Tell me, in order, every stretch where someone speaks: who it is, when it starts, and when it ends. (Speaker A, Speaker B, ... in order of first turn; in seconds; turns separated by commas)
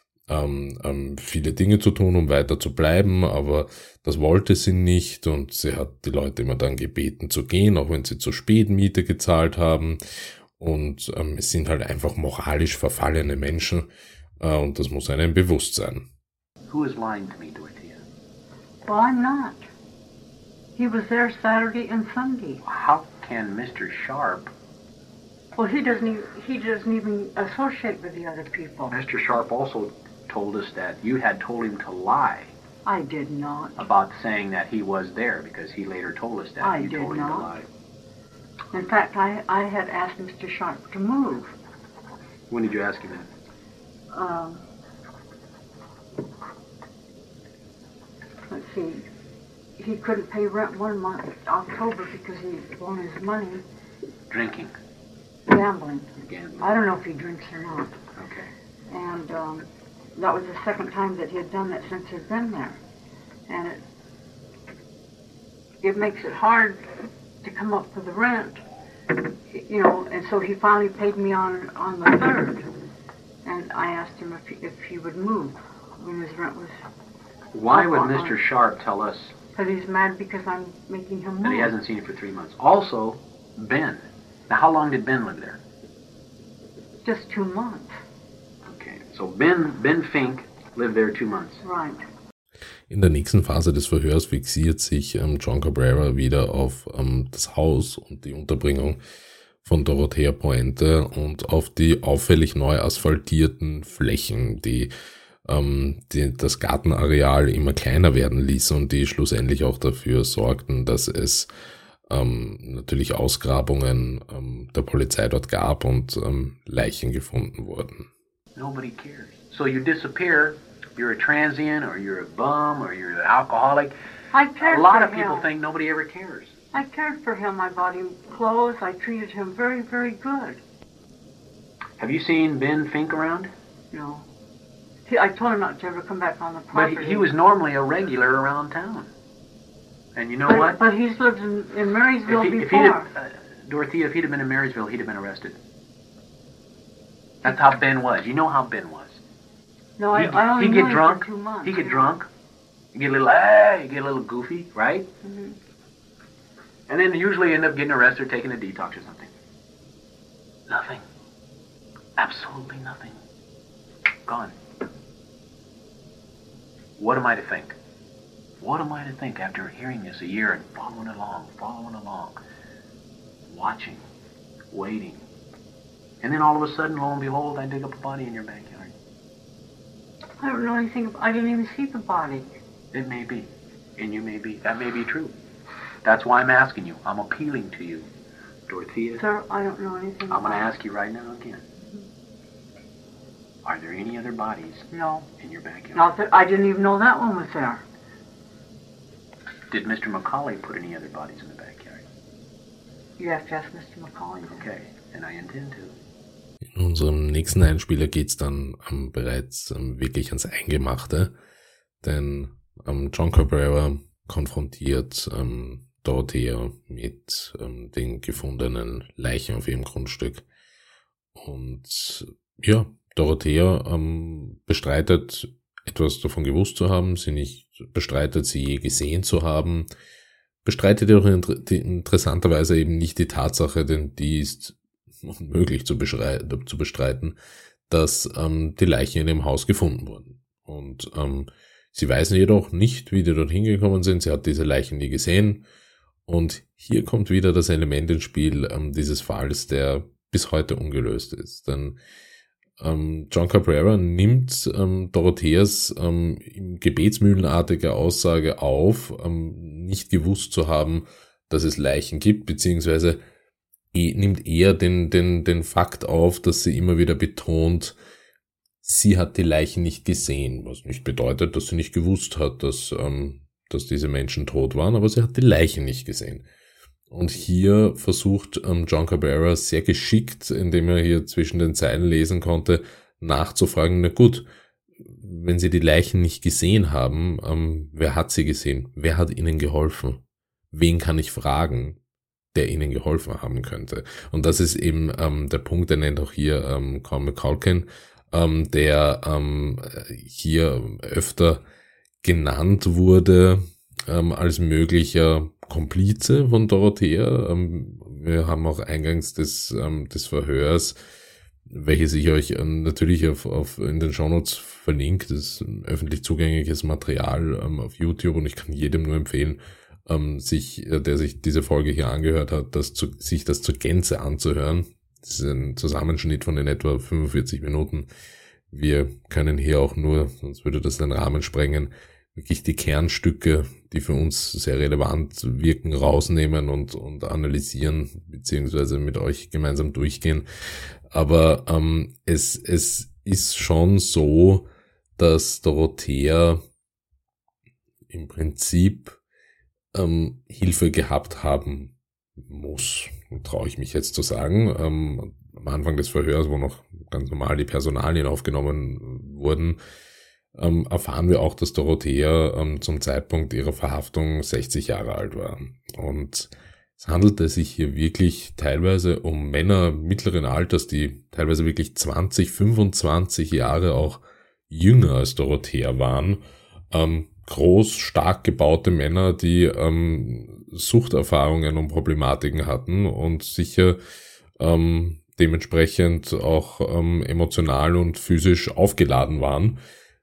Speaker A: 0.3-10.0, Speaker A: 10.6-13.9, Speaker A: 14.4-16.1, Speaker B: 16.7-18.0, Speaker C: 18.9-19.6, Speaker C: 20.8-22.6, Speaker B: 22.6-24.5, Speaker C: 25.6-28.9, Speaker B: 28.9-32.5, Speaker C: 32.9-33.8, Speaker B: 33.8-37.7, Speaker C: 36.6-37.5, Speaker C: 38.7-41.5, Speaker B: 42.5-43.3, Speaker C: 44.1-44.6, Speaker C: 48.5-49.1, Speaker C: 49.8-53.6, Speaker B: 54.3-54.7, Speaker C: 55.5-58.0, Speaker B: 56.2-56.9, Speaker B: 58.2-58.5, Speaker C: 58.9-62.8, Speaker C: 63.5-63.8, Speaker C: 65.8-66.8, Speaker C: 67.4-68.6, Speaker C: 69.5-72.7, Speaker C: 73.4-76.8, Speaker B: 77.5-79.3, Speaker C: 77.7-78.4, Speaker C: 79.5-81.7, Speaker B: 81.4-85.6, Speaker C: 87.0-88.0, Speaker B: 88.7-91.6, Speaker C: 91.6-92.0, Speaker A: 92.9-99.0, Speaker A: 99.6-104.9, Speaker A: 105.5-111.5, Speaker A: 112.1-118.1, Speaker B: 118.6-123.9, Speaker C: 124.3-125.5, Speaker B: 124.6-126.5, Speaker C: 126.7-130.6, Speaker B: 132.0-133.5, Speaker C: 133.9-134.3, Speaker C: 135.1-137.3, Speaker B: 136.7-139.1, Speaker B: 140.2-140.8, Speaker C: 140.5-143.1, Speaker B: 142.3-145.6, Speaker B: 147.4-149.2, Speaker C: 150.0-152.1, Speaker B: 150.1-152.3, Speaker B: 152.9-155.1, Speaker C: 155.2-155.6, Speaker B: 156.9-159.3, Speaker B: 160.7-161.0, Speaker B: 162.2-163.2, Speaker B: 164.3-164.6, Speaker B: 167.0-167.8, Speaker B: 168.6-172.4, Speaker B: 173.5-174.0, Speaker B: 174.7-175.2, Speaker B: 176.2-178.9, Speaker C: 180.4-182.5, Speaker B: 182.9-185.3, Speaker B: 186.0-188.1, Speaker B: 188.7-189.2, Speaker C: 189.2-190.8, Speaker B: 190.3-191.6, Speaker B: 193.7-194.9, Speaker C: 194.9-195.3, Speaker B: 195.4-196.1, Speaker C: 195.9-197.8, Speaker B: 199.7-202.0, Speaker C: 203.2-204.7, Speaker B: 204.5-206.0, Speaker A: 206.8-211.3, Speaker A: 212.0-220.4, Speaker A: 221.4-229.9, Speaker A: 230.7-237.4, Speaker A: 237.9-245.7, Speaker A: 246.3-252.0, Speaker A: 252.8-263.2, Speaker A: 263.9-268.0, Speaker A: 268.8-276.5, Speaker A: 277.1-284.5, Speaker A: 285.1-292.0, Speaker A: 292.5-301.6, Speaker A: 302.2-311.0, Speaker A: 311.7-328.1, Speaker A: 328.7-340.4, Speaker A: 341.1-346.6, Speaker A: 348.1-349.2, Speaker A: 349.9-359.8, Speaker A: 360.6-384.0, Speaker A: 384.6-389.8